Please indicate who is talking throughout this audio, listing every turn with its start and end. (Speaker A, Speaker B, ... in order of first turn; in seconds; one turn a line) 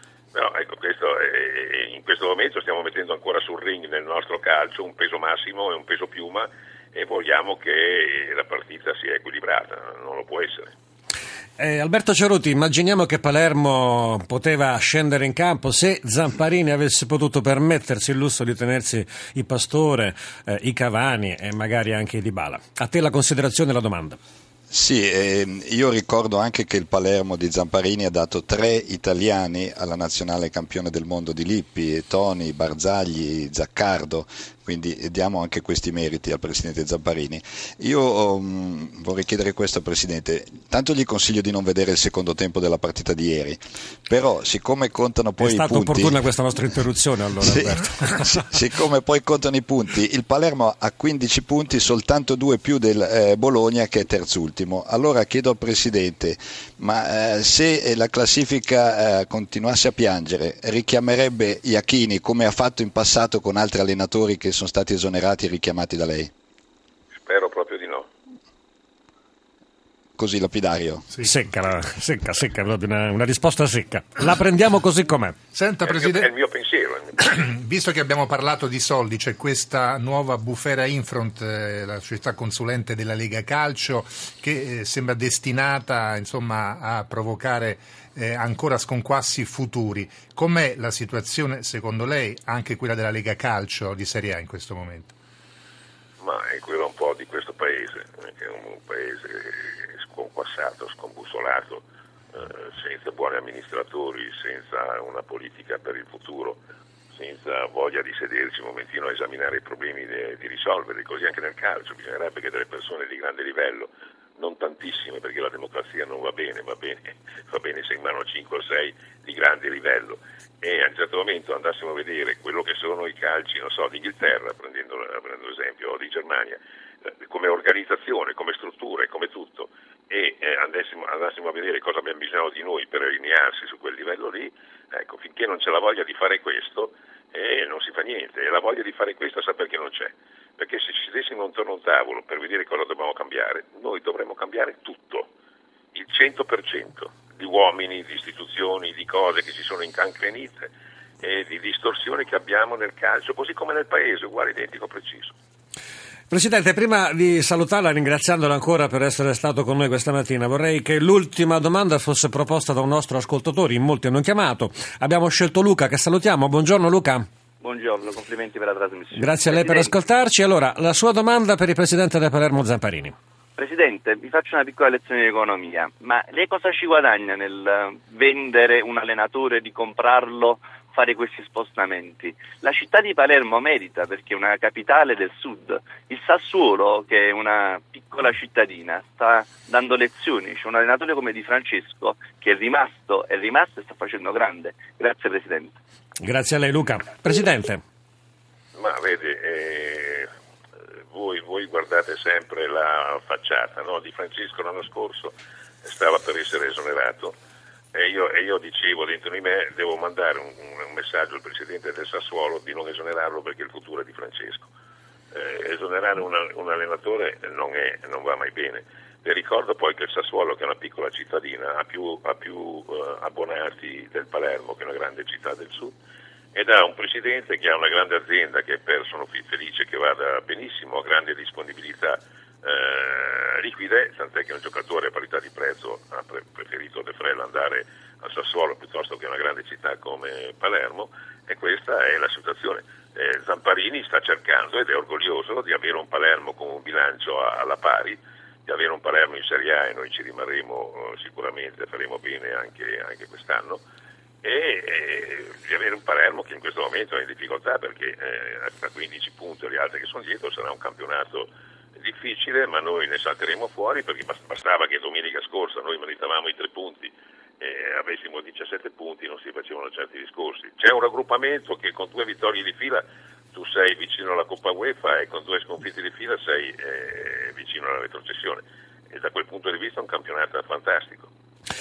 Speaker A: 0.3-10.7
Speaker B: 11.6-24.2
Speaker C: 24.7-46.2
Speaker B: 45.4-48.5
Speaker C: 47.4-66.3
Speaker A: 67.2-68.1
Speaker C: 70.2-71.1
Speaker B: 71.2-75.4
Speaker D: 75.5-76.4
Speaker A: 75.9-77.2
Speaker D: 77.2-95.1
Speaker A: 96.2-101.7
Speaker A: 102.4-106.5
Speaker A: 107.1-113.8
Speaker A: 114.4-120.1
Speaker A: 120.6-126.5
Speaker A: 127.3-129.5
Speaker A: 130.1-140.0
Speaker A: 140.6-145.2
Speaker A: 145.9-150.7
Speaker A: 151.2-155.3
Speaker B: 156.3-167.3
Speaker E: 167.6-169.9
Speaker B: 169.2-173.1
Speaker E: 173.6-195.8
Speaker B: 196.2-197.8
Speaker A: 198.8-200.3
Speaker A: 201.1-207.3
Speaker A: 207.9-214.6
Speaker A: 215.3-225.9
Speaker A: 226.6-232.1
Speaker A: 232.7-248.2
Speaker A: 248.7-253.7
Speaker A: 254.4-261.4
Speaker A: 262.0-267.1
Speaker A: 267.6-273.0
Speaker A: 273.5-281.3